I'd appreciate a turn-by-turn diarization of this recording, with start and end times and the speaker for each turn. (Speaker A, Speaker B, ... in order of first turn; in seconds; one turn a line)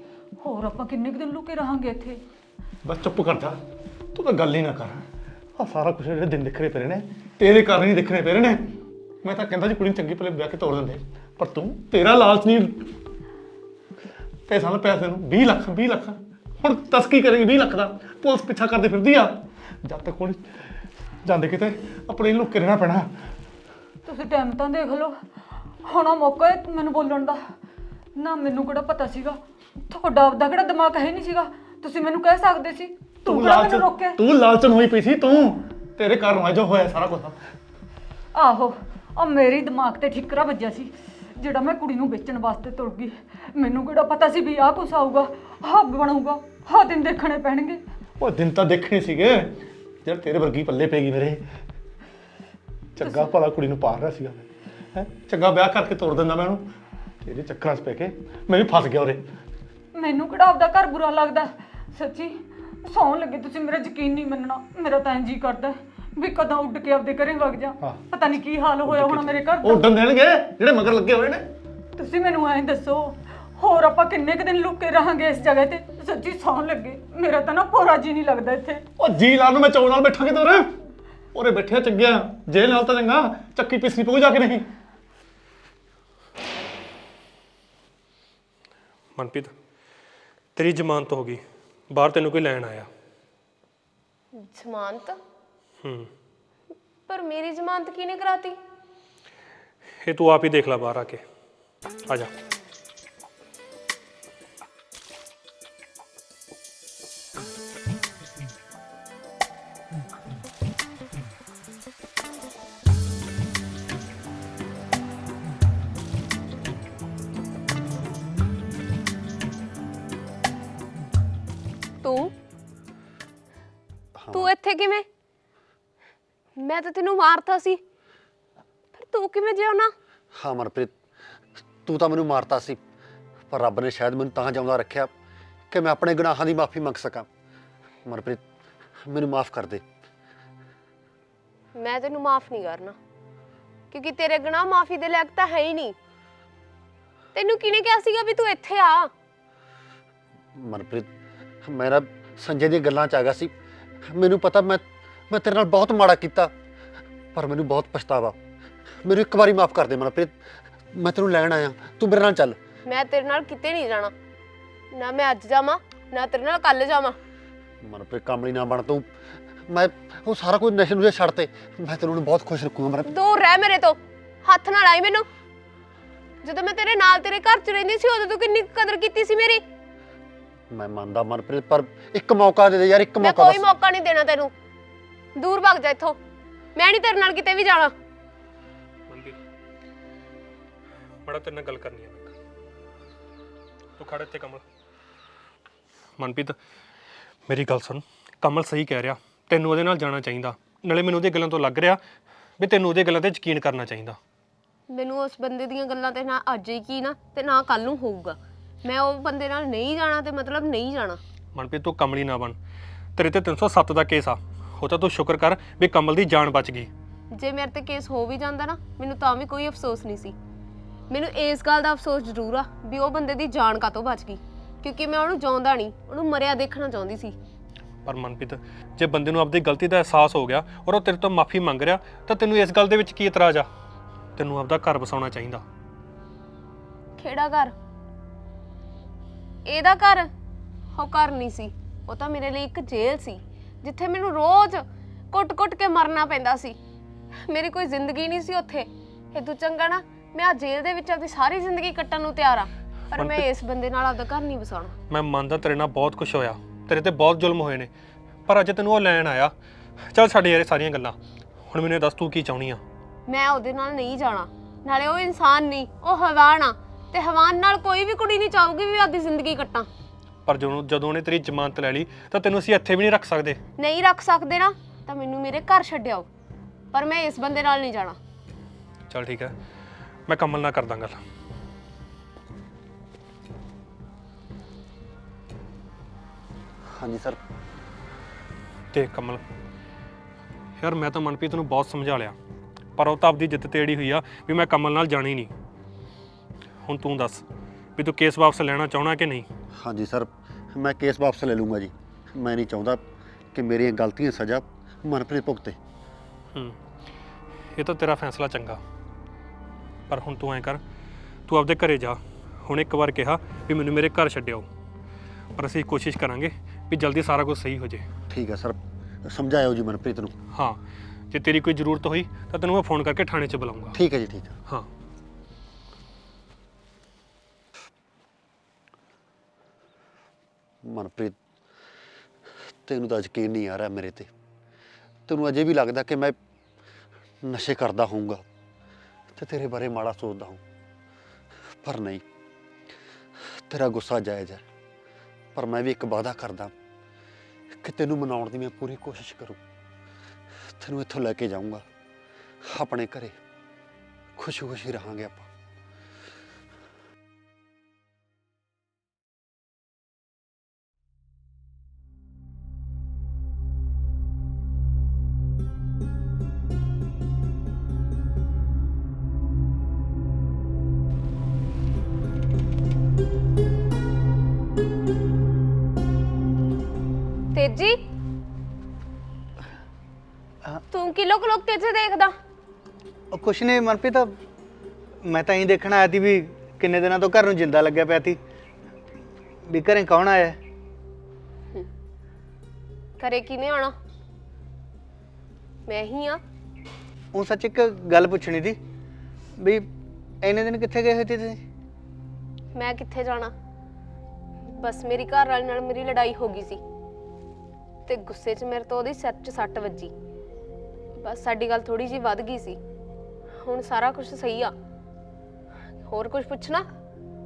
Speaker A: 0.4-2.2
Speaker B: 2.8-3.6
Speaker B: 4.1-5.1
Speaker B: 5.6-12.9
Speaker B: 14.5-23.2
Speaker A: 24.0-27.4
Speaker A: 28.1-34.2
Speaker B: 33.2-37.4
Speaker A: 38.3-47.8
Speaker B: 48.2-51.4
Speaker B: 53.0-56.7
Speaker A: 53.0-53.3
Speaker B: 57.2-59.3
Speaker A: 60.0-69.9
Speaker B: 68.8-71.5
Speaker A: 72.0-78.8
Speaker B: 79.0-80.8
Speaker B: 81.3-84.7
Speaker C: 89.2-89.5
Speaker C: 90.6-92.9
Speaker D: 94.3-95.2
Speaker C: 95.8-96.1
Speaker D: 97.1-98.6
Speaker C: 100.0-101.2
Speaker D: 122.0-122.3
Speaker E: 124.2-124.5
Speaker D: 124.3-125.1
Speaker D: 126.6-127.8
Speaker D: 128.9-129.9
Speaker E: 130.3-130.9
Speaker E: 131.6-132.8
Speaker E: 133.5-135.1
Speaker E: 135.7-137.3
Speaker E: 138.1-138.4
Speaker E: 139.0-139.8
Speaker D: 141.8-142.9
Speaker D: 143.9-145.9
Speaker D: 147.3-149.1
Speaker E: 150.5-151.1
Speaker E: 151.6-153.5
Speaker E: 154.0-156.5
Speaker E: 157.3-158.4
Speaker E: 159.0-162.6
Speaker D: 162.9-164.1
Speaker D: 164.9-167.2
Speaker E: 167.8-173.1
Speaker D: 173.1-175.3
Speaker D: 176.4-179.6
Speaker E: 180.7-183.7
Speaker D: 183.2-184.5
Speaker D: 185.4-186.2
Speaker D: 186.7-187.9
Speaker C: 189.1-189.4
Speaker C: 191.2-192.3
Speaker C: 194.0-194.6
Speaker C: 196.2-196.6
Speaker C: 197.5-202.0
Speaker C: 202.6-204.2
Speaker D: 204.9-211.2
Speaker C: 211.5-212.6
Speaker C: 213.2-216.9
Speaker D: 217.3-220.3
Speaker D: 221.1-227.3
Speaker C: 228.0-233.7
Speaker C: 234.4-235.6
Speaker D: 237.2-237.7
Speaker D: 239.7-240.3
Speaker D: 240.9-246.8
Speaker D: 247.4-254.9
Speaker C: 253.1-253.4
Speaker C: 255.1-257.9
Speaker C: 258.5-259.5
Speaker C: 260.1-261.1
Speaker C: 261.7-262.8
Speaker D: 263.3-269.9
Speaker C: 270.4-273.6
Speaker D: 273.8-276.3
Speaker D: 276.9-278.2
Speaker C: 279.1-279.5
Speaker C: 280.3-281.2
Speaker E: 286.8-287.4
Speaker C: 288.9-289.4
Speaker C: 290.8-292.4
Speaker C: 292.9-295.5
Speaker C: 296.8-297.4
Speaker C: 297.9-299.5
Speaker E: 299.8-305.8
Speaker C: 307.8-308.8
Speaker C: 310.1-310.8
Speaker C: 311.5-314.6
Speaker C: 315.6-318.1
Speaker E: 318.3-320.3
Speaker C: 320.5-320.8
Speaker C: 321.3-324.0
Speaker E: 323.9-324.6
Speaker E: 330.8-331.4
Speaker E: 332.6-334.3
Speaker E: 335.3-336.4
Speaker E: 337.4-338.4
Speaker E: 339.3-340.6
Speaker E: 341.8-342.2
Speaker E: 343.4-344.6
Speaker E: 345.6-346.7
Speaker E: 347.7-349.6
Speaker E: 350.6-351.8
Speaker E: 352.6-353.4
Speaker E: 354.4-355.5
Speaker D: 377.5-378.0
Speaker D: 380.9-382.3
Speaker F: 383.3-384.4
Speaker F: 385.2-388.4
Speaker F: 389.6-390.6
Speaker D: 393.2-393.9
Speaker D: 395.9-396.4
Speaker F: 397.3-398.8
Speaker F: 399.6-399.9
Speaker F: 400.4-401.6
Speaker D: 402.8-403.5
Speaker D: 404.7-406.8
Speaker D: 408.1-410.1
Speaker D: 411.2-412.8
Speaker D: 413.6-414.7
Speaker D: 416.1-416.9